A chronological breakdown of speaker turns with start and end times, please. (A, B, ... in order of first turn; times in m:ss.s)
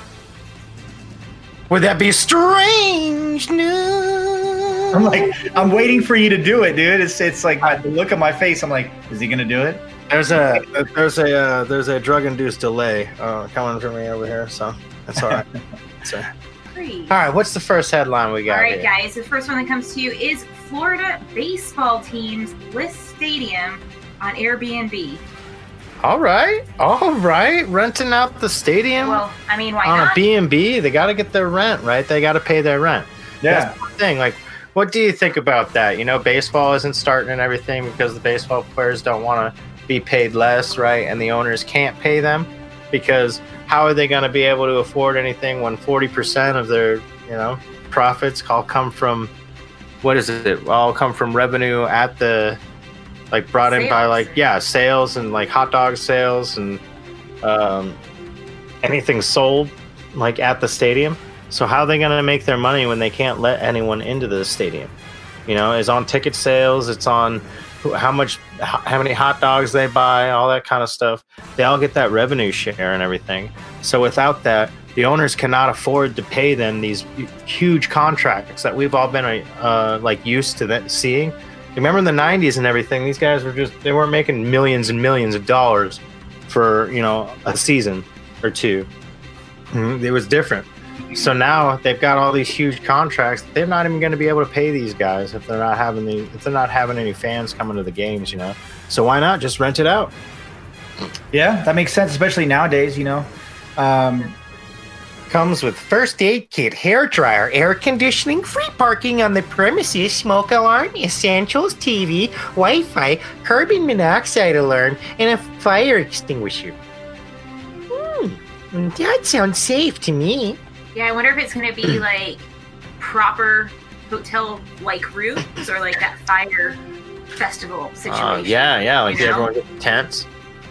0:01.7-0:05.4 A
0:04.9-0:09.8 B
0:10.1-0:15.5 A
0:16.0-0:16.3 A
0:16.7-0:17.2 C
0:17.1-0:18.9 A
0:18.5-0:25.2 C
0:26.0-0:29.2 A
0:29.0-0:30.2 C
0:29.8-0:49.3 A
0:33.4-0:33.7 B
0:50.0-0:52.6 A
0:53.3-0:56.8 A
0:53.6-0:54.4 C
0:57.4-0:58.0 A
0:58.8-1:04.9 A
1:05.5-1:28.9 A
1:29.7-1:40.1 A
1:41.3-1:44.3 B
1:45.3-1:56.8 A
1:57.9-2:00.6 A
2:00.9-2:06.8 C
2:07.3-2:09.5 C
2:08.1-2:10.3 A